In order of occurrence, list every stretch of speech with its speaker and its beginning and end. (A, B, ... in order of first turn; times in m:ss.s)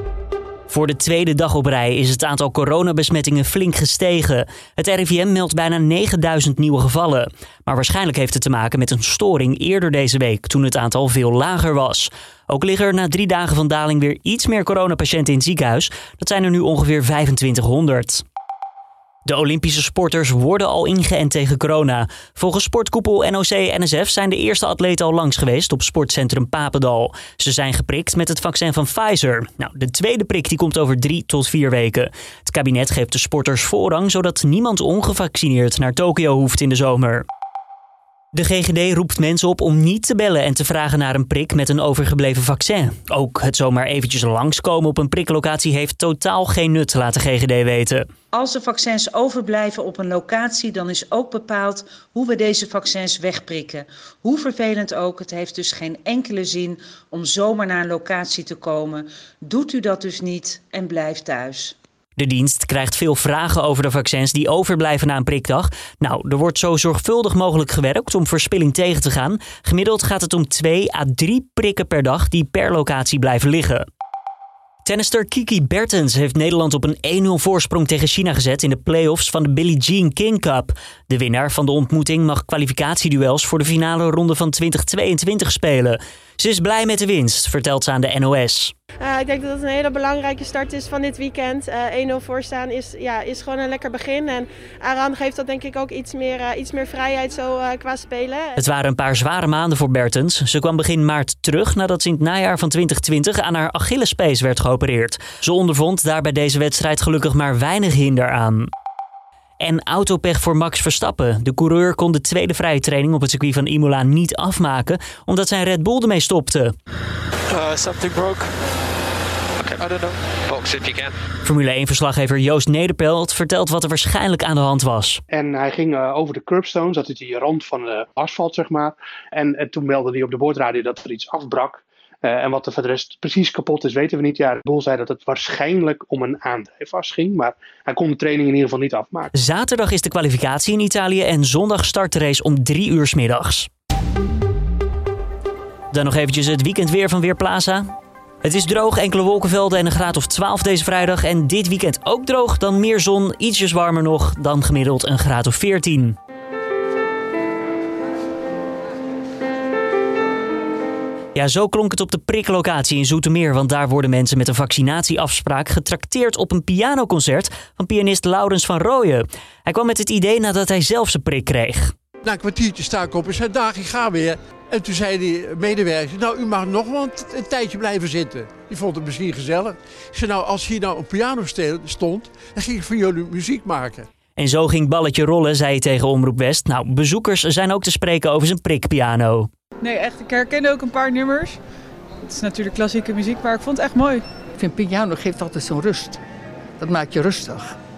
0:00.7-0:18.2 A
0:19.2-0:37.2 A
0:38.3-0:48.0 A
0:48.3-1:01.8 B
1:02.2-1:13.9 A
1:14.8-1:28.7 A
1:29.0-1:38.6 C
1:38.6-1:48.7 A
1:49.6-1:56.7 A
1:57.5-1:58.5 D
1:59.6-2:01.2 D
2:01.4-2:05.2 A
2:05.3-2:19.3 E
2:19.3-2:23.7 A
2:25.9-2:27.9 A
2:28.4-2:36.2 A
2:41.3-2:51.9 A
2:52.2-3:04.1 F
3:04.4-3:09.5 A
3:09.8-3:11.6 G
3:12.2-3:14.2 G
3:14.6-3:16.2 H
3:16.8-3:17.7 H